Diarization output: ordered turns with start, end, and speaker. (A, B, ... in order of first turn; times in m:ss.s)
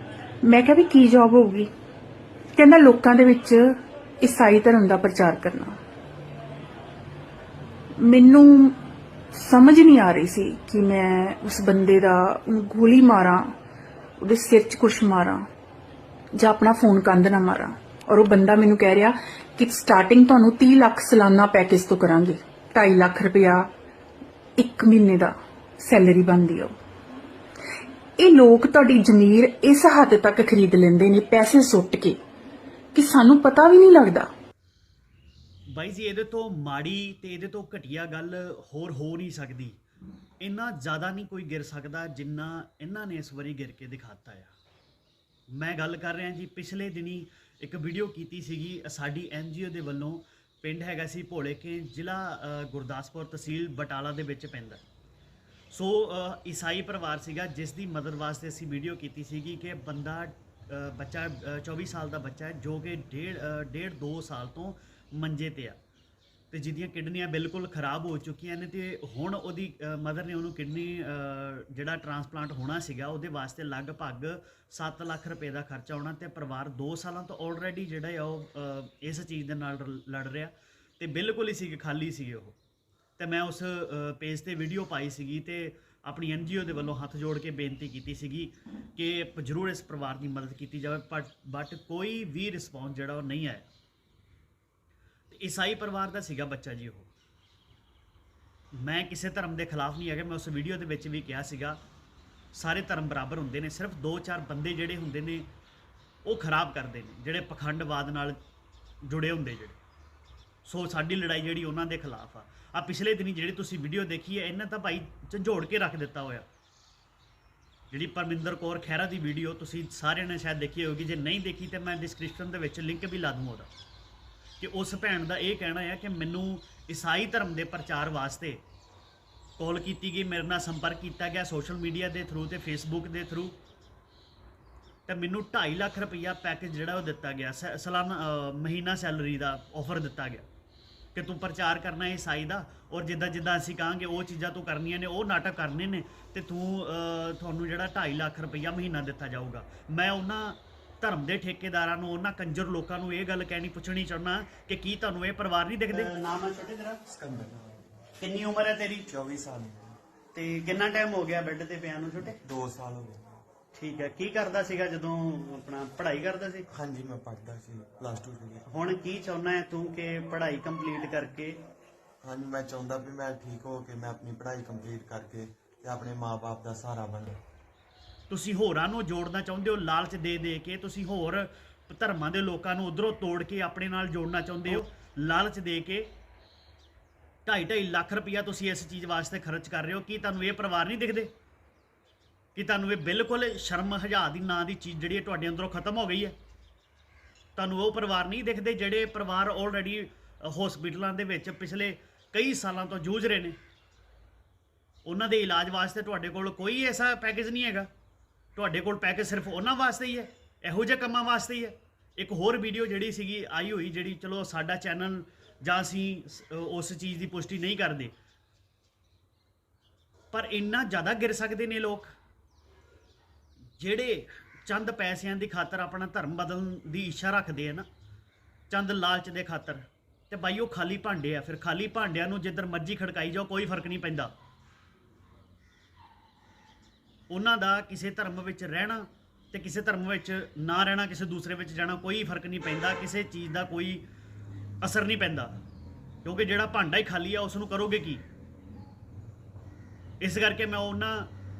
0:00.4-0:01.7 A
0:02.6-0:05.8 A
0:08.0-0:08.8 A
0:09.3-0:13.5 A
0:14.2-0:15.4 A
0:16.3-0:23.7 A
0:24.6-0:26.7 A
0:28.2-0:32.2 A
0:32.9-0:34.3 A
0:35.7-0:39.8 B
0:40.4-0:44.5 B
0:45.5-0:54.8 B
0:55.7-1:05.8 B
1:06.5-1:22.6 B
1:23.2-1:33.7 B
1:35.3-1:37.1 B
1:38.8-1:41.8 B
1:42.5-1:45.5 B
1:46.2-1:48.4 B
1:49.0-1:49.8 B
1:50.6-1:56.5 B
1:57.9-2:03.7 B
2:04.6-2:08.6 B
2:09.6-2:13.6 B
2:15.1-2:20.5 B
2:21.2-2:37.0 B
2:37.1-2:38.0 C
2:38.2-2:39.1 B
2:39.1-2:40.0 C
2:40.3-2:42.4 B
2:42.4-2:43.4 C
2:43.7-2:46.7 B
2:46.7-2:48.7 C
2:48.7-2:51.6 B
2:52.2-2:57.4 C
2:58.3-3:06.1 B
3:07.4-3:11.3 B
3:12.6-3:16.4 B
3:17.6-3:23.6 B
3:25.0-3:27.9 B
3:28.6-3:38.1 B
3:40.3-3:42.1 B
3:43.8-3:47.9 B
3:48.7-3:54.3 B
3:57.3-4:04.0 B
4:04.8-4:05.5 B
4:06.2-4:08.2 B
4:10.2-4:11.3 B